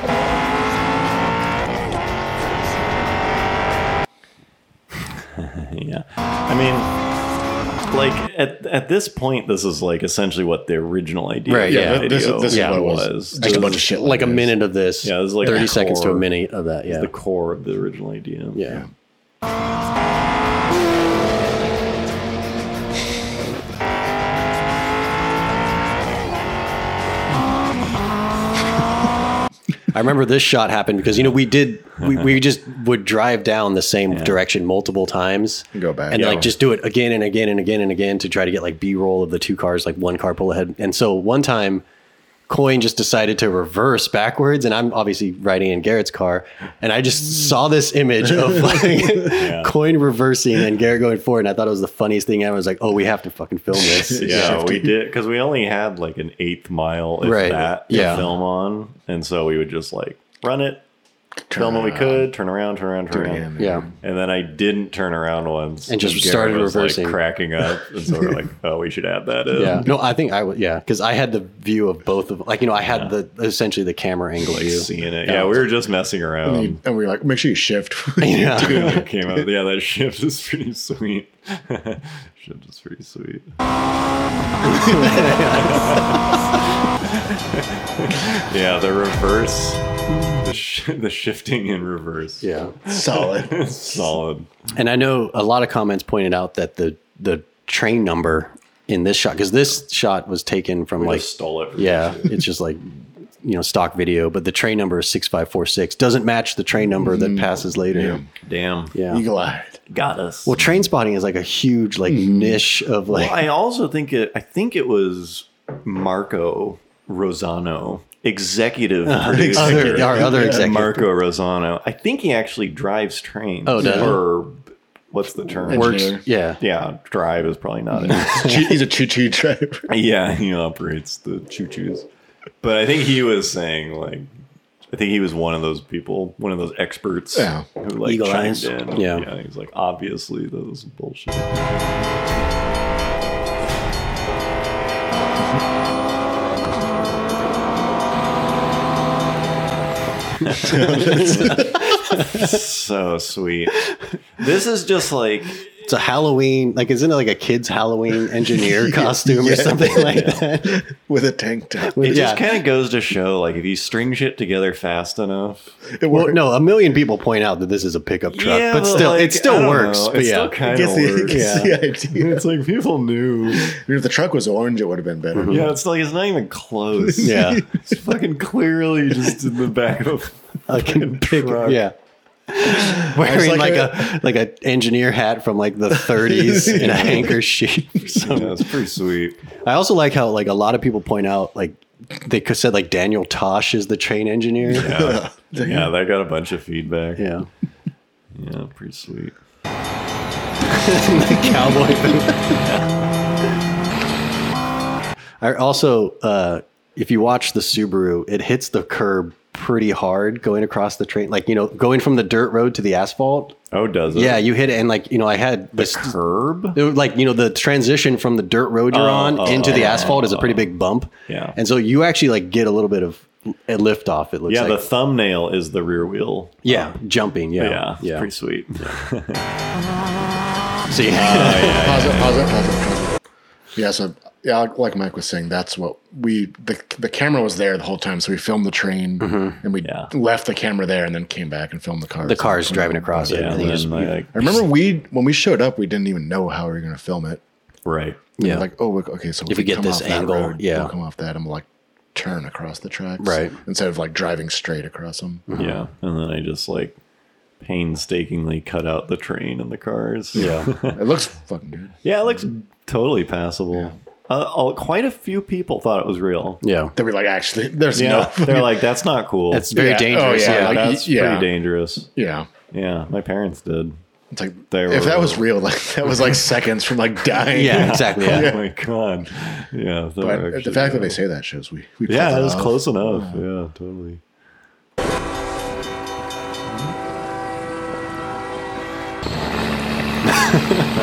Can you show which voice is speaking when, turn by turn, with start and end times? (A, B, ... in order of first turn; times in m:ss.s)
0:05.3-0:06.9 A
0:07.9-0:13.8 A
0:11.5-0:12.8 B
0:11.6-0:14.6 C
0:13.4-0:17.1 B
0:15.0-0:16.2 A
0:16.8-0:18.6 A
0:18.5-0:18.8 B
0:29.9-0:41.8 B
0:35.7-0:36.5 C
0:36.1-0:36.5 A
0:42.5-0:54.6 B
0:48.6-0:49.0 C
0:49.2-0:49.7 A
0:53.8-0:54.9 C
0:54.2-1:00.8 A
0:57.2-0:58.2 B
1:01.5-1:02.3 C
1:01.5-1:03.5 A
1:03.1-1:04.0 C
1:03.6-1:03.9 B
1:04.0-1:09.9 A
1:05.9-1:07.2 B
1:09.5-1:15.6 B
1:12.9-1:13.1 A
1:14.4-1:16.8 A
1:16.4-1:19.4 C
1:18.2-1:19.0 B
1:18.6-1:23.5 A
1:24.6-1:26.3 B
1:24.9-1:34.6 A
1:32.4-1:32.8 B
1:32.9-1:34.1 C
1:34.7-1:42.8 B
1:41.0-1:42.3 A
1:43.4-1:48.2 B
1:47.0-1:48.3 C
1:48.4-1:48.9 A
1:48.9-1:49.2 B
1:49.1-1:49.8 C
1:49.9-1:50.6 A
1:50.4-1:53.4 B
1:52.1-1:52.6 C
1:53.1-2:08.6 A
1:59.0-2:01.0 B
1:59.2-2:00.8 C
2:03.6-2:04.2 B
2:03.8-2:04.2 C
2:05.6-2:06.2 C
2:05.7-2:06.6 B
2:08.0-2:09.9 C
2:08.2-2:08.4 B
2:09.9-2:12.0 A
2:12.6-2:14.3 A
2:14.9-2:22.2 A
2:17.3-2:17.7 C
2:18.0-2:19.2 B
2:30.4-2:35.8 A
2:30.6-2:32.6 B
2:30.6-2:31.8 C
2:35.8-2:40.8 B
2:38.6-2:42.2 C
2:40.1-2:40.4 A
2:41.9-2:42.4 B
2:42.0-2:45.8 A
2:45.9-2:46.4 C
2:46.1-2:50.5 B
2:48.3-2:53.7 A
2:50.6-2:52.4 C
2:51.3-2:51.7 B
2:53.5-2:55.7 C
2:55.3-2:55.6 B
2:55.5-3:01.8 A
2:57.0-2:57.8 C
2:57.2-2:57.6 B
3:00.7-3:01.9 B
3:02.5-3:08.6 B
3:02.8-3:04.2 C
3:05.9-3:07.4 C
3:06.7-3:07.2 A
3:08.2-3:09.4 A
3:09.6-3:14.9 B
3:14.7-3:17.2 A
3:14.8-3:15.9 C
3:17.2-3:17.5 B
3:18.3-3:19.4 A
3:20.6-3:22.6 B
3:22.6-3:22.9 A
3:25.4-3:33.6 B
3:33.7-3:34.4 A
3:34.1-3:36.1 B
3:35.7-3:36.8 A
3:36.7-3:44.8 B
3:38.9-3:40.7 A
3:41.3-3:41.5 A
3:44.5-3:47.0 A
3:46.6-3:48.3 B
3:47.6-3:49.4 A
3:50.9-3:51.8 B
3:51.1-3:52.4 A
3:51.6-3:53.2 C
3:53.7-4:07.4 C
3:59.2-3:59.6 B
3:59.8-4:00.1 A
4:02.2-4:04.2 B
4:03.2-4:04.6 A
4:07.8-4:08.3 A
4:08.4-4:08.6 B
4:08.4-4:15.4 C
4:09.5-4:10.9 B
4:13.2-4:13.6 B
4:15.5-4:15.8 B
4:15.6-4:17.0 A
4:17.6-4:21.0 A
4:20.3-4:20.7 B
4:20.4-4:21.9 C
4:22.0-4:26.6 A
4:26.6-4:26.9 B
4:27.0-4:28.8 C
4:27.9-4:32.1 A
4:29.5-4:30.8 B
4:29.7-4:31.5 C
4:32.2-4:32.5 C
4:32.7-4:33.9 A
4:34.3-4:38.6 C
4:34.7-4:35.4 A
4:37.5-4:38.5 B
4:37.6-4:41.2 A
4:40.2-4:43.4 C
4:42.1-4:44.2 A
4:50.3-4:50.9 B